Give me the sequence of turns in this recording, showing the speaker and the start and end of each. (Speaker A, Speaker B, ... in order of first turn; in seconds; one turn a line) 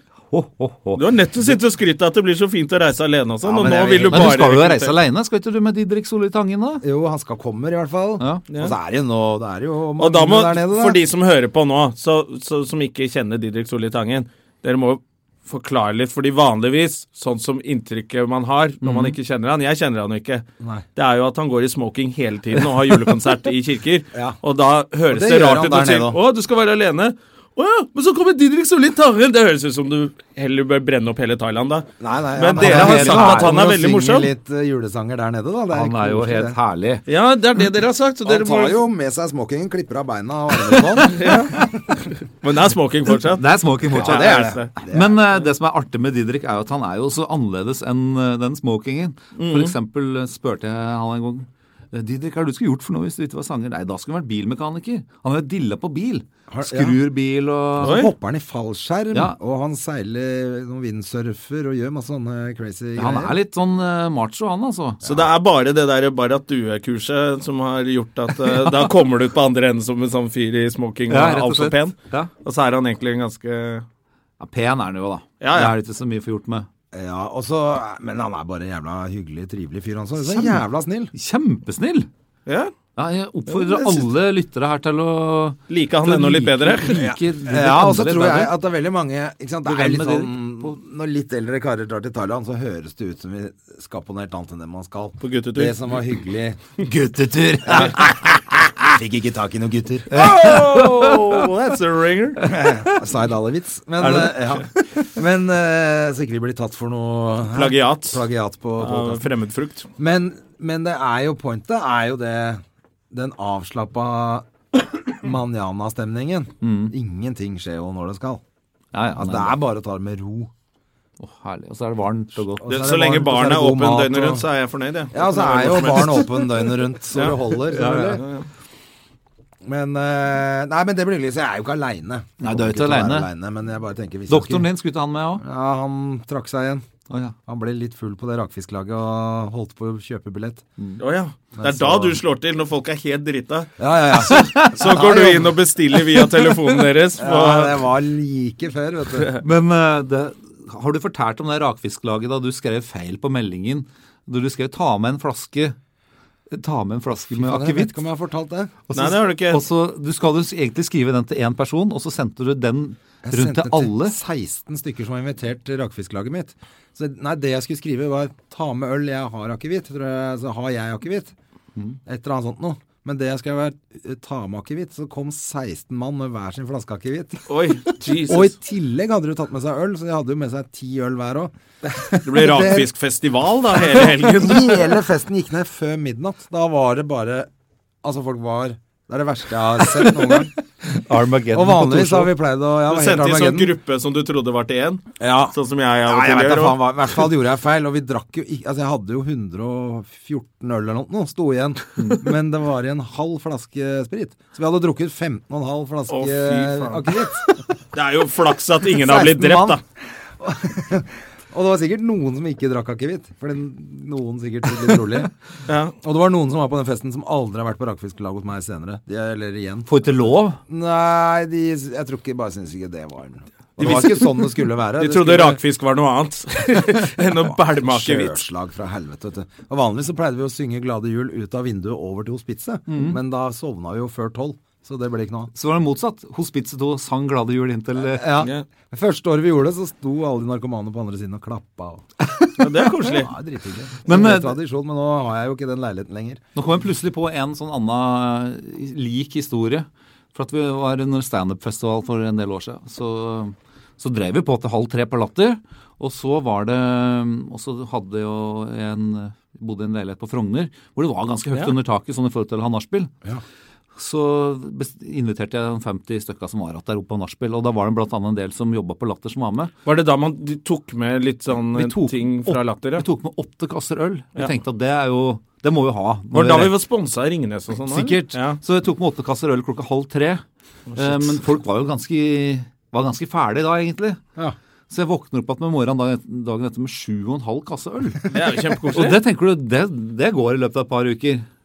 Speaker A: 0.3-1.0
Speaker B: 0.9-5.0
Speaker C: 3.4-4.4
Speaker A: 3.6-6.8
Speaker C: 6.8-11.0
Speaker B: 10.0-34.3
Speaker A: 18.8-19.1
Speaker C: 20.6-20.8
Speaker C: 25.1-26.2
Speaker C: 32.0-36.6
Speaker A: 32.5-33.6
Speaker A: 35.7-37.0
Speaker B: 37.1-38.8
Speaker C: 38.2-41.7
Speaker B: 41.0-41.6
Speaker B: 42.4-44.7
Speaker A: 43.4-58.0
Speaker C: 43.8-45.2
Speaker B: 49.4-49.7
Speaker C: 56.5-57.0
Speaker C: 57.8-63.4
Speaker B: 57.8-58.1
Speaker A: 63.0-65.0
Speaker C: 65.0-65.3
Speaker B: 65.0-73.8
Speaker A: 68.6-68.9
Speaker A: 71.1-72.3
Speaker A: 74.4-76.7
Speaker B: 75.4-75.8
Speaker C: 76.9-81.1
Speaker A: 80.2-80.6
Speaker A: 81.1-82.1
Speaker B: 82.5-82.7
Speaker A: 83.0-88.5
Speaker B: 83.6-84.0
Speaker B: 85.7-87.1
Speaker C: 87.3-96.6
Speaker A: 89.7-90.8
Speaker B: 95.2-95.8
Speaker A: 96.8-98.3
Speaker C: 97.7-98.0
Speaker C: 98.8-100.2
Speaker A: 100.1-101.2
Speaker B: 100.1-102.4
Speaker C: 102.4-109.2
Speaker B: 104.1-104.3
Speaker B: 107.5-108.2
Speaker B: 108.8-109.9
Speaker C: 110.0-118.4
Speaker A: 116.6-116.9
Speaker A: 118.9-119.6
Speaker C: 119.1-120.5
Speaker A: 121.2-122.8
Speaker C: 122.6-124.5
Speaker B: 122.7-126.4
Speaker C: 125.1-128.2
Speaker A: 127.7-128.2
Speaker B: 128.0-128.5
Speaker C: 129.6-134.7
Speaker A: 132.4-133.3
Speaker A: 134.3-135.4
Speaker C: 135.4-136.8
Speaker A: 137.1-137.3
Speaker C: 137.4-140.7
Speaker B: 141.0-143.7
Speaker C: 141.6-142.2
Speaker C: 143.8-145.6
Speaker A: 144.3-144.7
Speaker B: 144.3-147.9
Speaker C: 147.2-149.4
Speaker A: 149.4-155.8
Speaker A: 156.5-158.0
Speaker C: 157.2-158.8
Speaker A: 158.9-164.2
Speaker B: 158.9-159.6
Speaker C: 163.2-171.3
Speaker C: 172.1-177.5
Speaker B: 177.5-178.5
Speaker C: 178.2-182.9
Speaker B: 182.2-184.8
Speaker C: 183.9-187.5
Speaker C: 188.0-190.5
Speaker A: 190.8-192.3
Speaker C: 191.5-193.8
Speaker B: 192.9-197.2
Speaker C: 195.2-207.6
Speaker B: 206.1-207.2
Speaker B: 207.9-209.8
Speaker C: 208.9-215.3
Speaker B: 215.7-215.9
Speaker C: 216.0-225.6
Speaker A: 219.9-220.6
Speaker B: 223.8-228.4
Speaker C: 227.5-235.5
Speaker A: 232.9-233.2
Speaker A: 235.5-238.3
Speaker C: 238.0-242.1
Speaker A: 242.3-242.6
Speaker B: 242.6-243.3
Speaker C: 243.1-246.4
Speaker A: 244.0-244.6
Speaker A: 246.5-263.1
Speaker A: 263.9-269.7
Speaker B: 269.8-273.1
Speaker A: 271.7-276.7
Speaker B: 276.3-278.6
Speaker A: 277.9-280.4
Speaker B: 280.9-281.4
Speaker A: 280.9-284.2
Speaker A: 284.9-288.3
Speaker B: 288.3-289.2
Speaker A: 288.9-291.4